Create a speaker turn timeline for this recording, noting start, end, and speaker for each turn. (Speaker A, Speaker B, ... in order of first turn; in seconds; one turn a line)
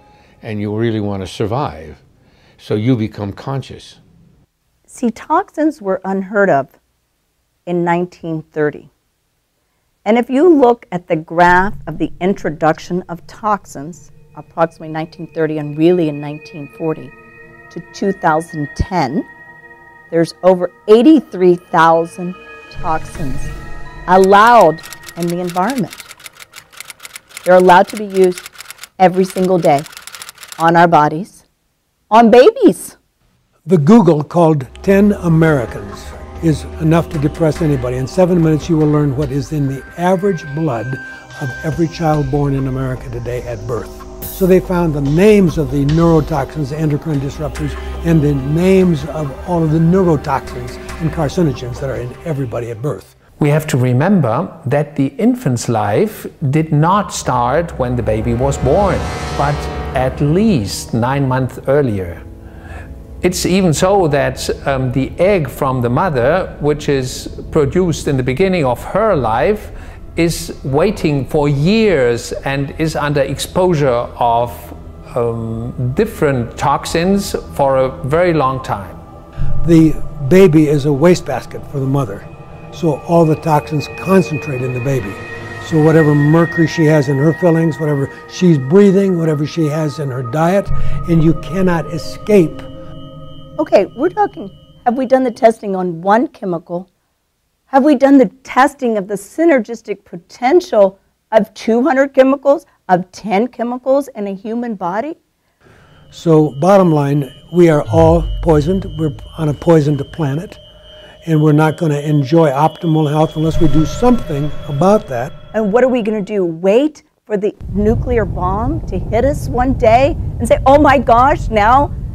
Speaker A: 0.4-2.0
Speaker A: 2.6-4.0
Speaker B: 4.9-6.7
Speaker B: 7.7-8.9
Speaker B: 10.0-17.1
Speaker B: 17.7-19.3
Speaker B: 20.1-23.5
Speaker B: 24.1-26.1
Speaker B: 27.4-29.9
Speaker B: 30.6-31.4
Speaker B: 32.1-33.0
Speaker C: 33.7-53.1
Speaker D: 53.4-62.2
Speaker D: 63.2-79.0
Speaker C: 79.6-92.7
Speaker B: 93.6-96.9
Speaker B: 97.7-105.2
Speaker C: 106.1-110.6
Speaker C: 111.2-115.3
Speaker B: 115.5-121.9